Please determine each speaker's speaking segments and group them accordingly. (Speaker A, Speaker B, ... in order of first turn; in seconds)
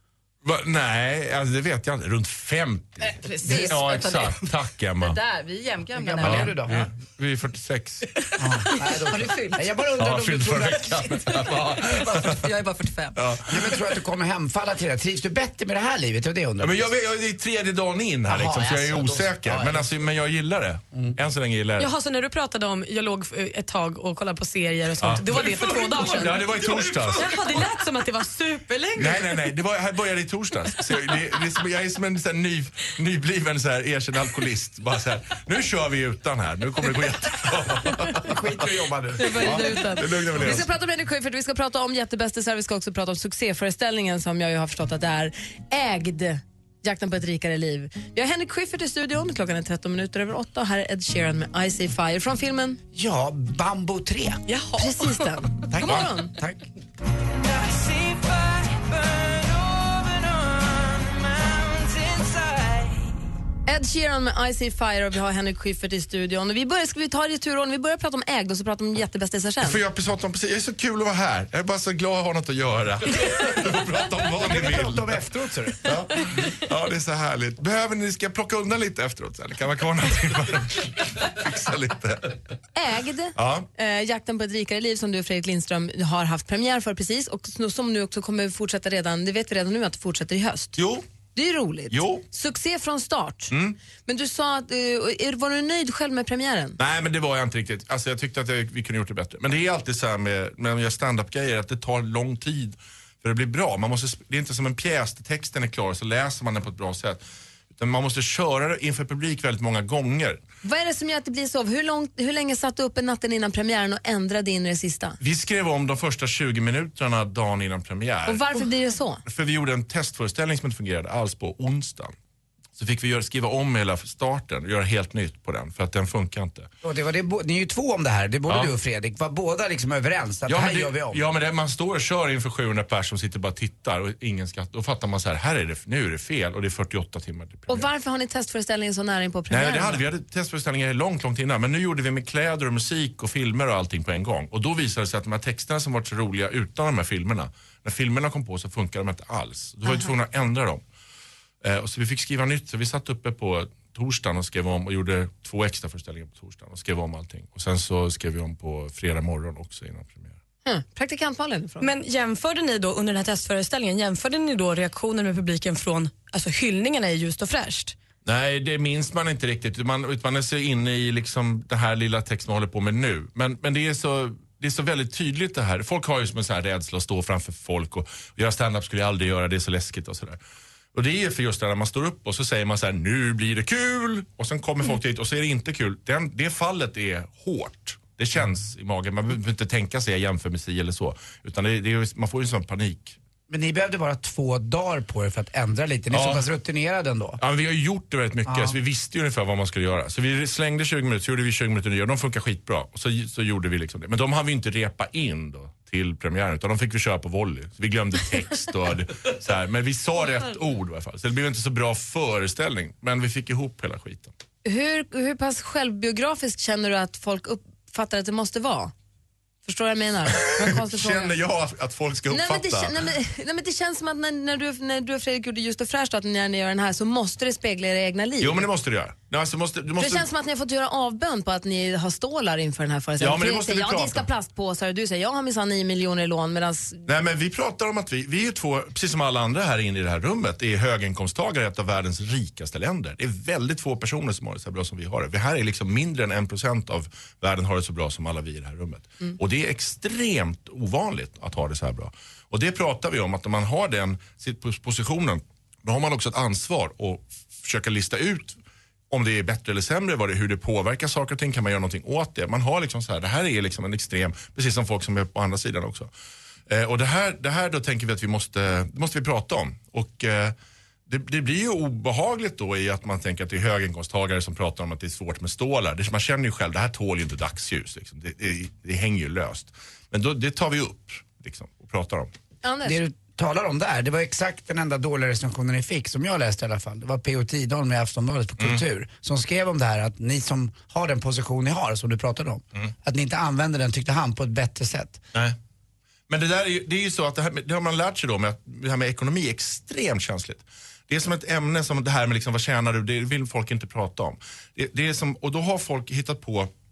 Speaker A: 0.4-5.2, 6.2-8.3, 10.0-12.5, 13.2-13.8, 16.6-21.9, 25.0-27.3, 28.9-38.7, 39.4-40.7, 69.6-75.3, 75.8-82.4, 83.3-83.7, 90.8-91.0, 91.9-92.2, 93.5-93.8, 96.8-107.2, 107.8-110.4, 115.2-118.6, 119.2-122.1, 122.8-126.7, 130.5-137.9, 139.5-150.8, 151.6-160.4, 168.2-180.4, 180.9-193.2, 196.1-196.4, 197.4-214.3, 220.6-222.9, 228.4-230.3, 233.2-234.3, 237.1-258.6, 259.1-266.1, 266.7-270.6, 271.1-282.3, 296.3-306.7
Speaker B: 3.1-4.5, 5.0-6.8, 9.0-9.6, 11.9-13.2
Speaker C: 6.0-6.8, 8.4-11.4, 13.5-16.9, 18.3-19.9, 38.2-39.7, 52.9-54.4, 55.7-56.7, 74.4-75.8, 126.8-131.2, 193.5-197.4, 198.5-198.8, 282.9-295.2
Speaker D: 21.8-26.6, 27.1-29.3, 54.5-55.4, 161.8-167.9
Speaker E: 39.2-52.8, 54.8-56.3, 63.7-69.8, 82.8-90.8, 91.3-93.5, 94.1-96.8, 110.6-115.2, 118.3-119.2, 137.7-140.0, 160.7-161.9, 214.7-218.9, 219.7-221.3, 222.3-228.7, 230.0-237.1, 282.6-283.0